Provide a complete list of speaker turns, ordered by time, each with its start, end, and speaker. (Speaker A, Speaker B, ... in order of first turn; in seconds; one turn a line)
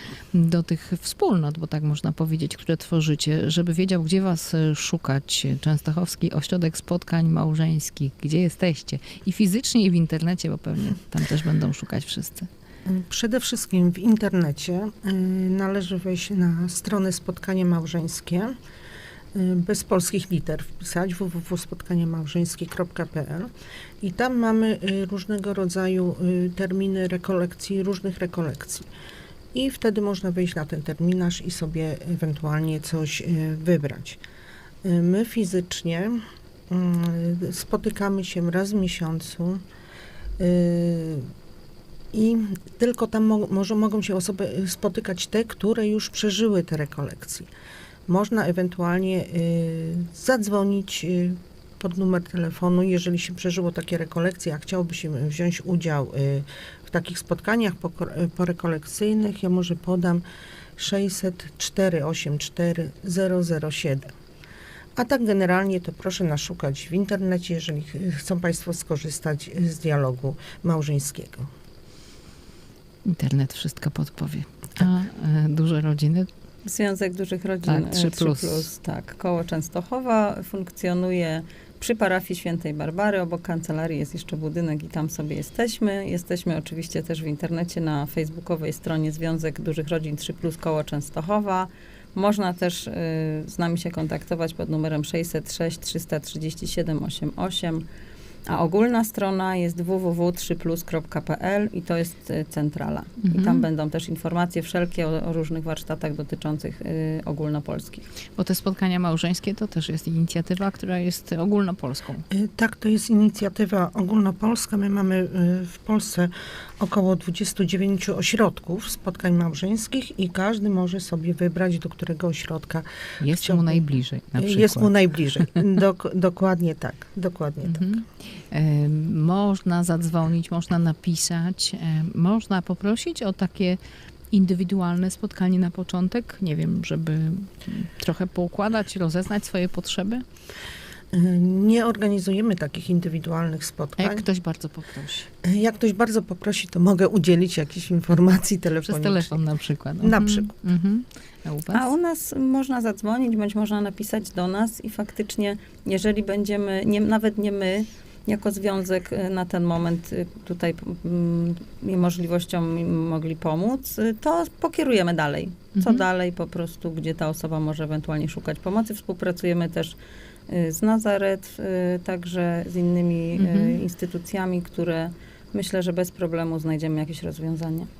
Speaker A: 0.3-12.5
Speaker B: 12.9-18.6
Speaker B: 19.3-28.9
Speaker B: 29.5-34.2
Speaker B: 34.8-39.6
Speaker B: 40.4-41.3
Speaker B: 42.1-47.5
Speaker B: 48.1-60.2
Speaker B: 60.8-64.1
Speaker B: 65.0-71.5
Speaker A: 73.0-76.3
Speaker C: 76.6-97.8
Speaker A: 77.6-78.7
Speaker C: 98.5-108.1
Speaker A: 103.2-103.7
Speaker A: 108.4-112.3
Speaker B: 112.3-123.8
Speaker A: 123.2-125.4
Speaker B: 124.4-128.0
Speaker A: 127.7-133.8
Speaker A: 134.3-140.2
Speaker B: 141.1-144.3
Speaker A: 144.0-145.3
Speaker B: 145.4-149.4
Speaker A: 148.8-151.9
Speaker B: 150.0-150.6
Speaker C: 151.7-170.0
Speaker A: 165.8-166.1
Speaker C: 170.5-177.9
Speaker A: 173.4-173.8